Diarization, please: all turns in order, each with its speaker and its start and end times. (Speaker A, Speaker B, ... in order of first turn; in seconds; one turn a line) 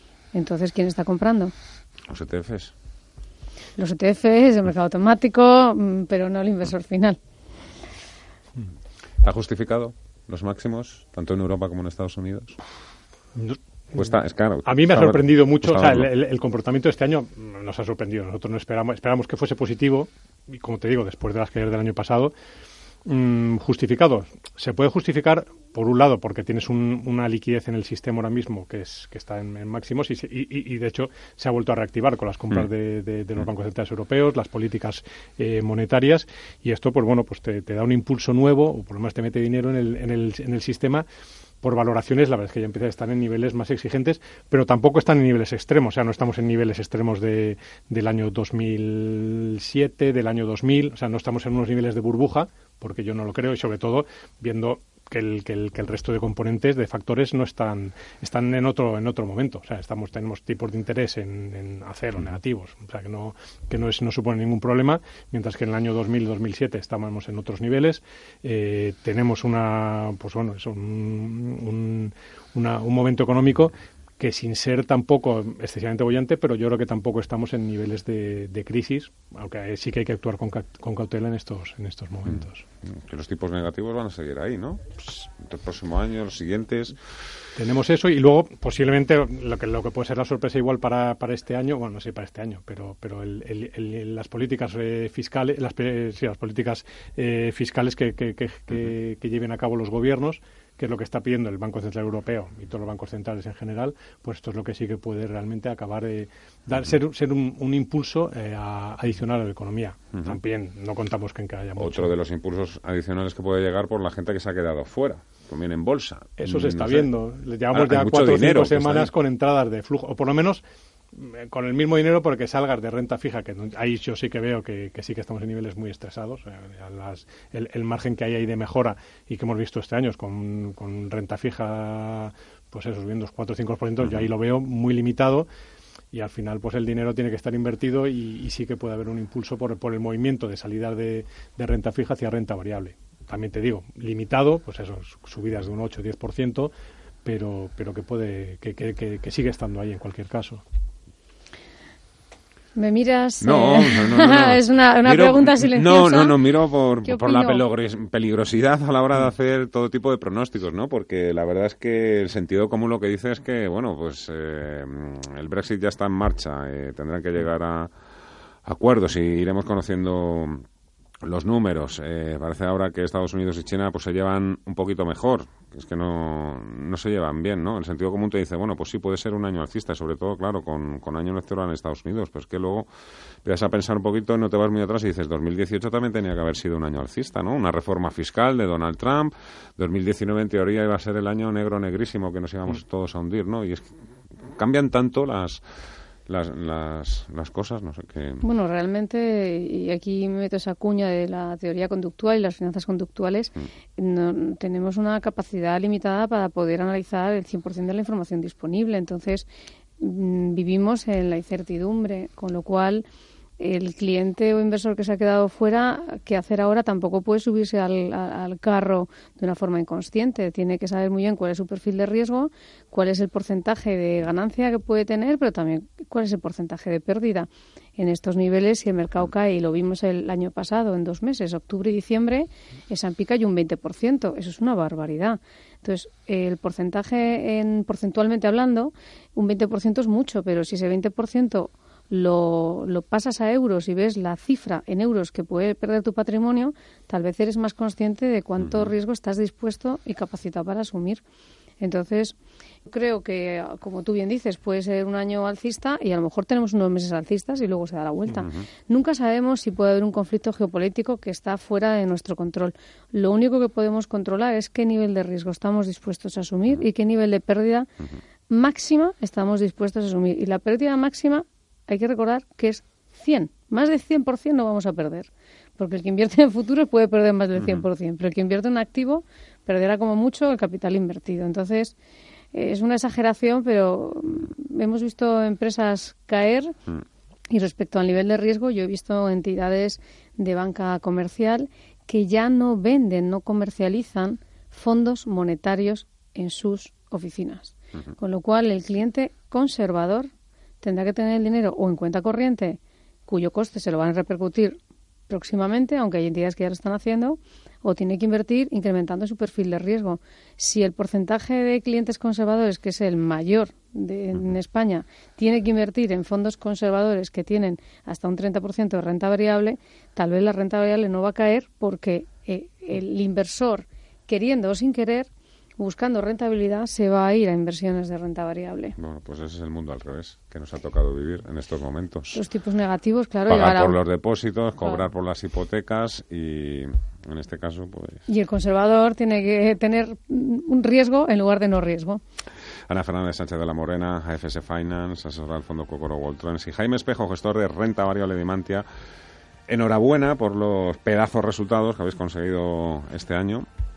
Speaker A: 0.3-1.5
Speaker B: 2.1-2.7
Speaker A: 3.8-7.2
Speaker B: 9.2-12.6
Speaker C: 13.4-14.0
Speaker B: 13.9-16.1
Speaker C: 14.7-22.3
Speaker C: 23.1-41.1
Speaker C: 41.6-82.6
Speaker B: 82.8-87.0
Speaker C: 87.6-112.1
Speaker B: 111.8-117.1
Speaker C: 116.4-120.6
Speaker B: 117.7-119.1
Speaker C: 121.1-135.5
Speaker C: 136.1-146.7
Speaker C: 147.2-150.6
Speaker A: 152.8-156.4
Speaker B: 153.4-167.9
Speaker A: 157.0-157.7
Speaker B: 168.7-170.6
Speaker B: 171.2-182.9
Speaker B: 183.4-193.9
Speaker B: 194.5-195.6
Speaker B: 196.3-198.4
Speaker A: 198.4-209.5
Speaker A: 210.0-213.1
Speaker A: 213.6-251.2
Speaker B: 248.6-248.9
Speaker A: 251.8-267.9
Speaker B: 258.4-258.7
Speaker A: 268.5-281.9
Speaker A: 282.5-286.8
Speaker A: 287.5-300.3
Speaker A: 300.8-329.0
Speaker B: 329.0-332.4
Speaker A: 332.3-334.0
Speaker B: 333.5-338.2
Speaker A: 338.3-342.2
Speaker B: 342.9-348.9
Speaker B: 349.7-353.7